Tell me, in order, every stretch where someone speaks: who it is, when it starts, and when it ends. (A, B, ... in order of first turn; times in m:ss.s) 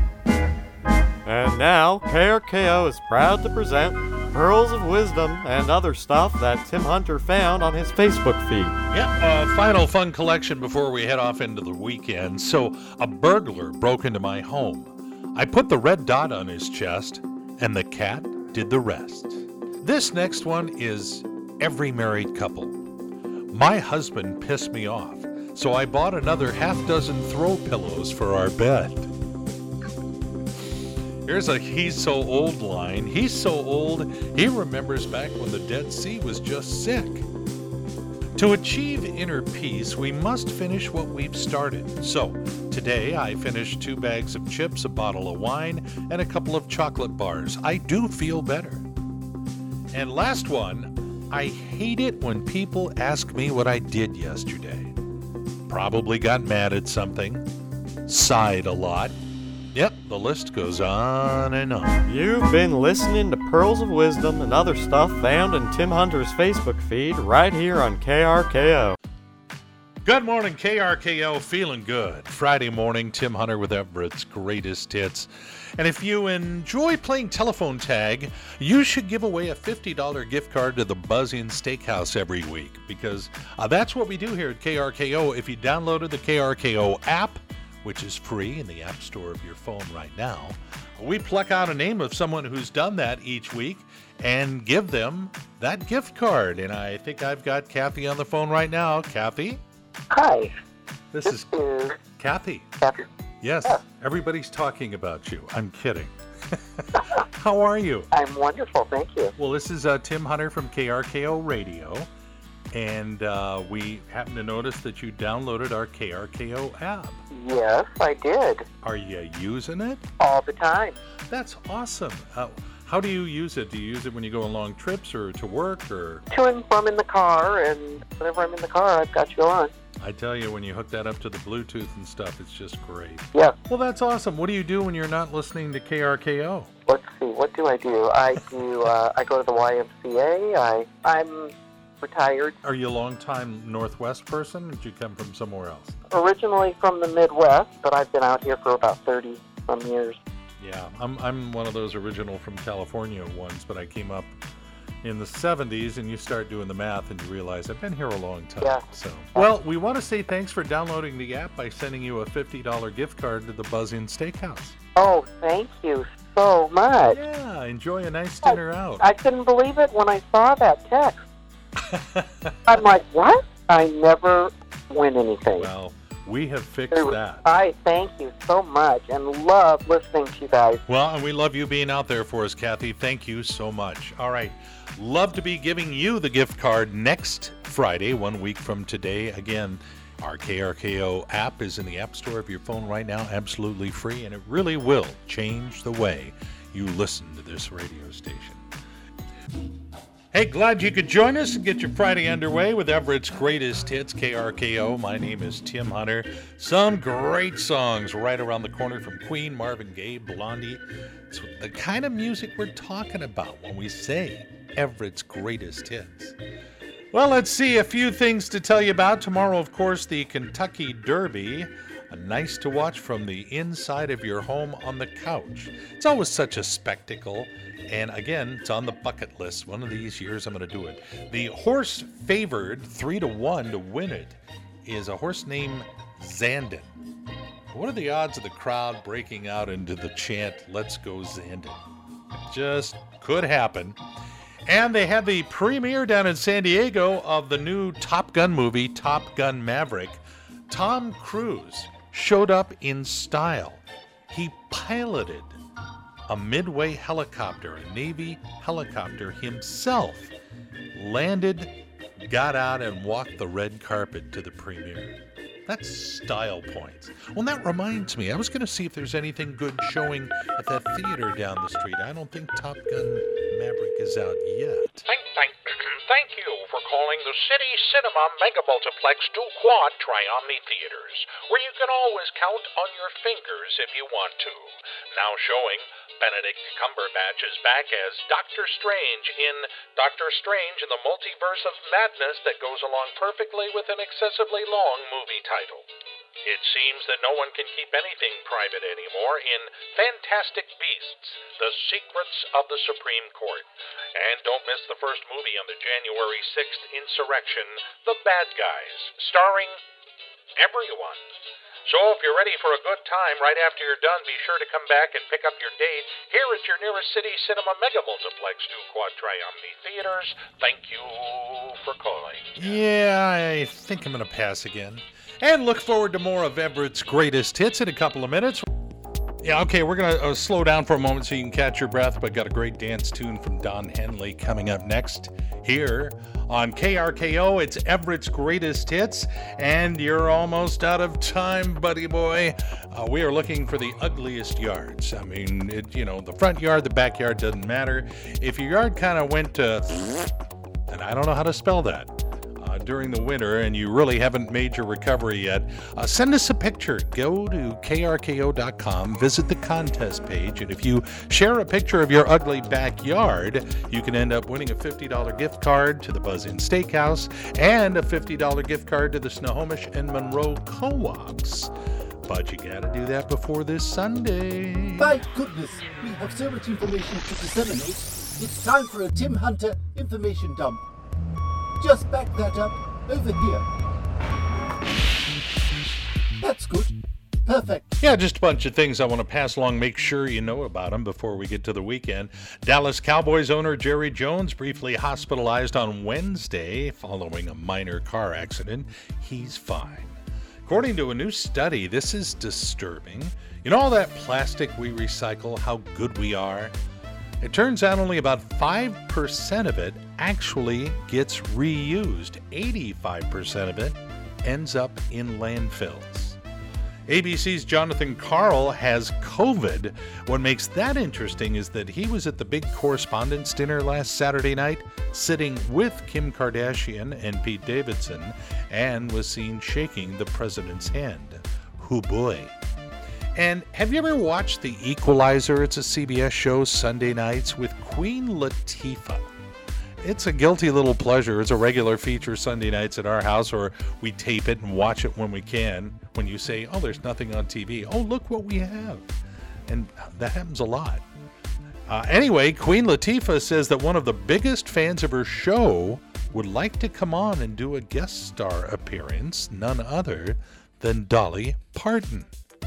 0:01.3-0:08.8 A
0:08.9-0:22.8 B
0:23.5-0:29.1 B
0:31.2-0:37.3 B
0:38.4-0:48.9 B
0:49.9-0:54.9 B
0:55.7-0:57.5 B
0:58.1-0:59.2 B
0:59.7-1:02.0 B
1:02.0-1:09.0 A
1:10.0-1:39.6 B
1:40.1-1:40.5 C
1:41.1-1:41.5 B
1:41.3-1:42.0 C
1:42.1-1:42.7 B
1:42.8-1:43.1 C
1:43.4-1:48.1 B
1:48.1-1:49.3 C
1:49.4-1:52.1 B
1:52.7-1:57.2 B
1:57.3-1:58.6 C
1:58.8-2:00.0 B
2:00.2-2:01.0 C
2:01.3-2:06.3 B
2:06.3-2:09.7 C
2:10.0-2:16.7 B
2:16.9-2:22.6 C
2:22.6-2:26.0 B
2:26.1-2:30.2 C
2:30.6-2:34.3 B
2:35.0-2:44.8 B
2:45.0-2:47.2 C
2:47.1-2:49.1 B
2:48.4-2:51.3 C
2:51.9-2:52.6 B
2:52.7-2:55.7 C
2:55.5-2:57.5 B
2:56.9-3:00.8 C
3:00.9-3:18.6 B
3:20.3-3:36.4 B
3:37.1-3:57.0 B
3:57.7-4:01.8 B
4:02.4-4:04.0 B
4:04.7-4:15.5 B
4:16.3-4:20.3 B
4:20.9-4:35.1 B
4:35.1-4:55.9 D
4:56.4-5:09.8 D
5:10.6-5:11.3 D
5:11.9-5:22.8 D
5:22.6-5:28.6 B
5:29.4-5:50.3 B
5:50.9-6:11.7 B
6:12.3-6:15.2 B
6:15.0-6:20.8 E
6:21.8-6:23.7 E
6:26.4-6:27.9 E
6:28.0-6:46.7 B
6:47.4-6:56.4 B
6:57.1-7:12.5 B
7:13.4-7:19.3 B
7:20.0-7:29.1 B
7:29.7-7:31.0 B
7:31.9-7:42.3 B